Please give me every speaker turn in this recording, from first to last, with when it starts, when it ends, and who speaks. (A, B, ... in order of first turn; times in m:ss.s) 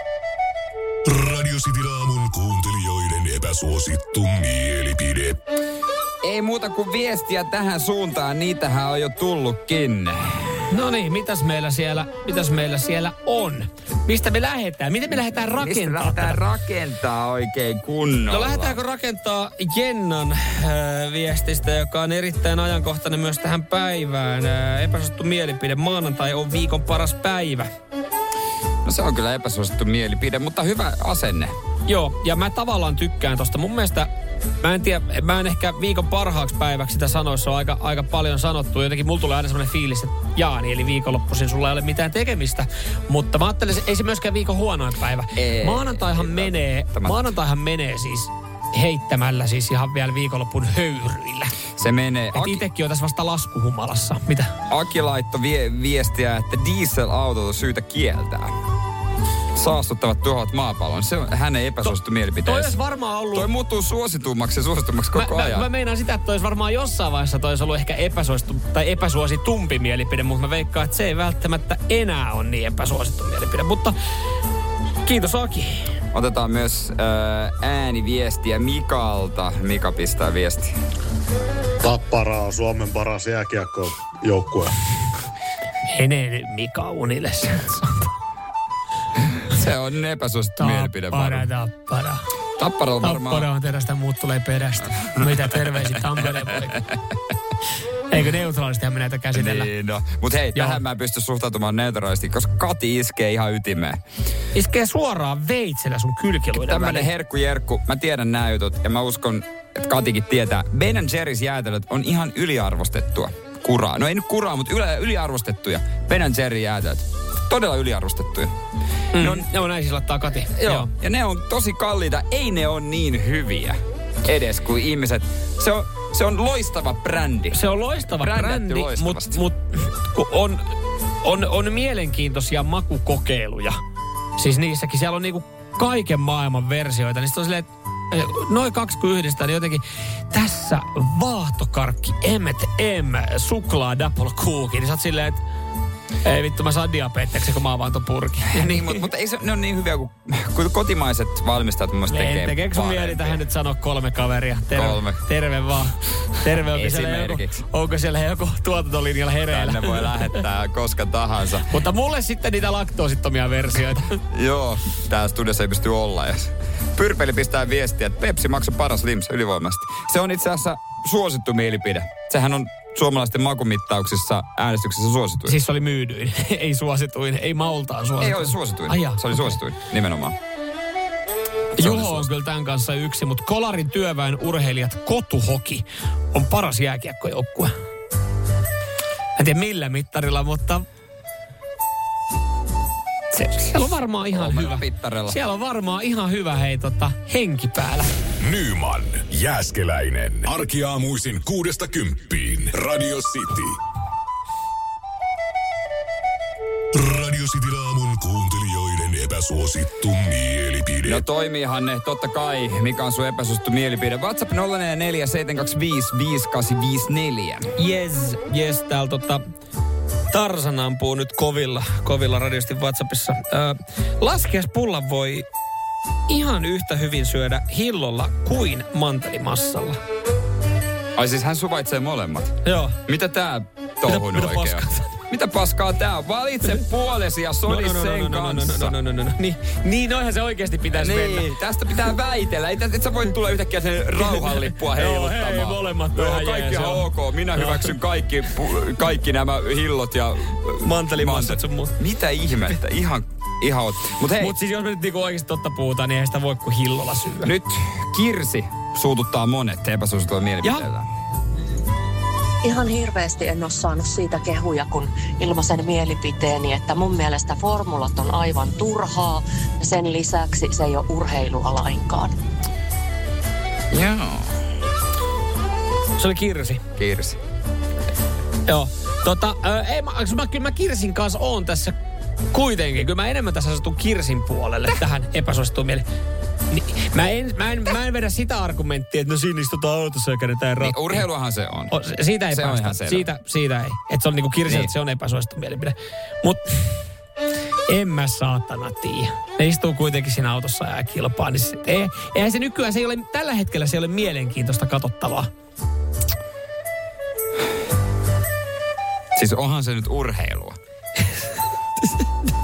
0:01.0-0:05.4 A
0:06.2-0:10.7 B
0:10.7-0:16.4 C
0:15.5-0:18.8 B
0:18.3-0:27.7 C
0:28.8-0:31.5 B
0:31.9-0:34.1 C
0:34.6-0:51.6 C
0:45.3-0:47.3 B
0:51.8-0:52.6 B
0:52.3-0:54.5 C
0:54.7-0:58.5 B
0:59.5-1:02.8 B
1:02.4-1:03.5 C
1:03.3-1:05.7 B
1:05.1-1:13.9 C
1:15.0-1:15.9 C
1:16.1-1:20.7 B
1:21.8-1:24.7 D
1:25.8-1:28.1 C
1:29.3-1:31.5 B
1:30.6-1:32.2 C
1:32.6-1:33.5 B
1:33.0-1:36.9 C
1:38.1-1:39.7 C
1:39.3-1:44.0 B
1:40.5-1:40.8 C
1:44.5-1:47.1 C
1:46.5-1:58.5 B
1:59.1-2:00.9 C
1:59.1-1:59.5 B
2:00.6-2:09.4 B
2:07.5-2:10.7 C
2:11.2-2:13.8 C
2:14.4-2:25.4 C
2:26.2-2:29.0 C
2:28.5-2:33.4 B
2:32.1-2:40.4 C
2:34.7-2:35.2 B
2:36.6-2:37.6 B
2:39.5-2:41.7 B
2:41.6-2:44.2 C
2:44.3-2:55.6 B
2:55.4-2:59.6 C
2:58.2-3:00.4 B
3:01.8-3:07.7 C
3:01.8-3:02.3 B
3:09.4-3:10.8 C
3:13.3-3:15.4 B
3:13.5-3:18.1 C
3:18.4-3:23.8 A
3:26.9-3:31.2 A
3:31.0-3:37.7 B
3:37.8-3:39.4 C
3:40.3-3:45.5 C
3:46.3-3:50.0 C
3:51.2-3:58.9 B
3:52.6-3:53.0 C
3:54.0-3:55.2 C
3:57.7-4:01.5 C
4:00.9-4:14.5 B
4:04.2-4:07.9 C
4:10.8-4:12.0 C
4:14.4-4:17.5 C
4:17.4-4:21.1 B
4:20.6-4:20.9 C
4:22.6-4:32.4 E
4:33.9-4:34.6 B
4:36.2-4:36.8 C
4:37.0-4:37.4 B
4:38.6-4:42.0 C
4:42.5-4:46.0 C
4:46.7-4:51.2 C
4:50.8-4:51.9 B
4:51.9-4:56.9 C
4:52.5-4:53.3 B
4:54.6-4:54.9 B
4:57.9-5:05.5 C
5:09.3-5:10.8 B